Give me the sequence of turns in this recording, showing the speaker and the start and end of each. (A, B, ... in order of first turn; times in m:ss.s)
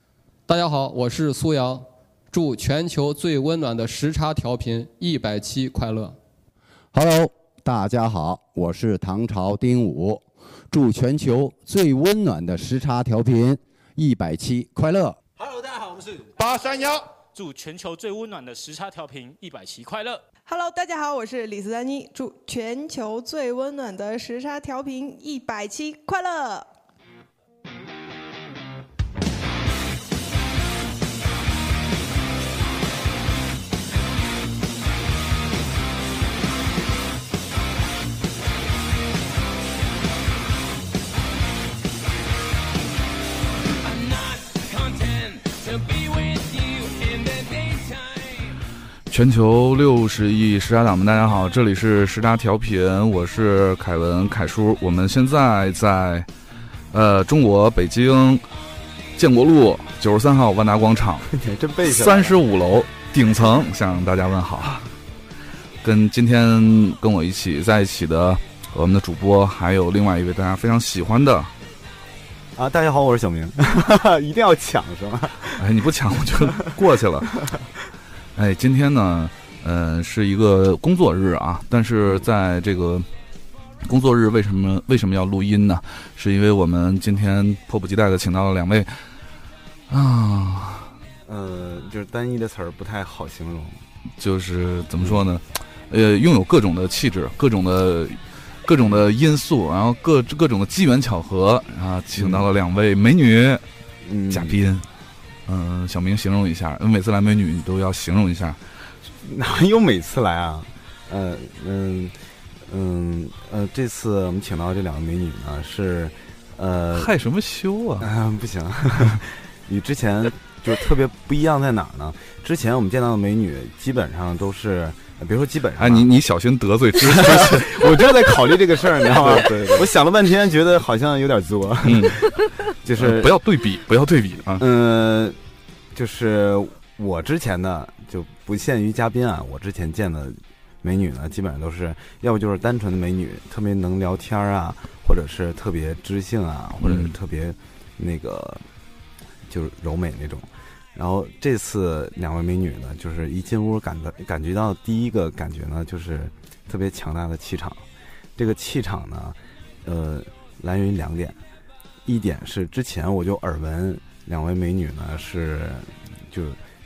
0:00.5-0:06.2 A
0:06.9-0:15.2 B
0:16.4-0:20.2 C
0:20.4-0:26.7 D
0:49.1-0:56.3 E
0:56.9-0:58.4 E
0:59.2-1:01.3 E
1:01.3-1:02.4 F
1:01.8-1:04.9 E
1:05.8-1:11.5 E
1:12.6-1:15.6 F
1:15.5-1:17.4 E
1:18.4-1:23.0 E
1:23.8-1:29.0 E
1:29.9-1:30.9 E
1:31.2-1:33.8 F
1:34.2-1:43.6 E
1:42.2-1:42.5 F
1:44.0-1:44.6 F
1:44.3-1:44.9 E
1:45.5-1:48.6 E
1:49.2-1:52.1 F
1:52.6-1:57.1 F
1:56.9-1:58.1 E
1:58.0-2:06.1 F
2:05.8-2:08.1 E
2:07.0-2:12.2 F
2:09.0-2:09.9 E
2:11.8-2:12.3 E
2:12.8-2:13.4 F
2:13.0-2:14.6 E
2:14.6-2:15.4 F
2:15.9-2:28.6 F
2:26.8-2:27.1 E
2:29.5-2:37.8 F
2:38.4-2:41.4 F
2:42.0-2:46.6 F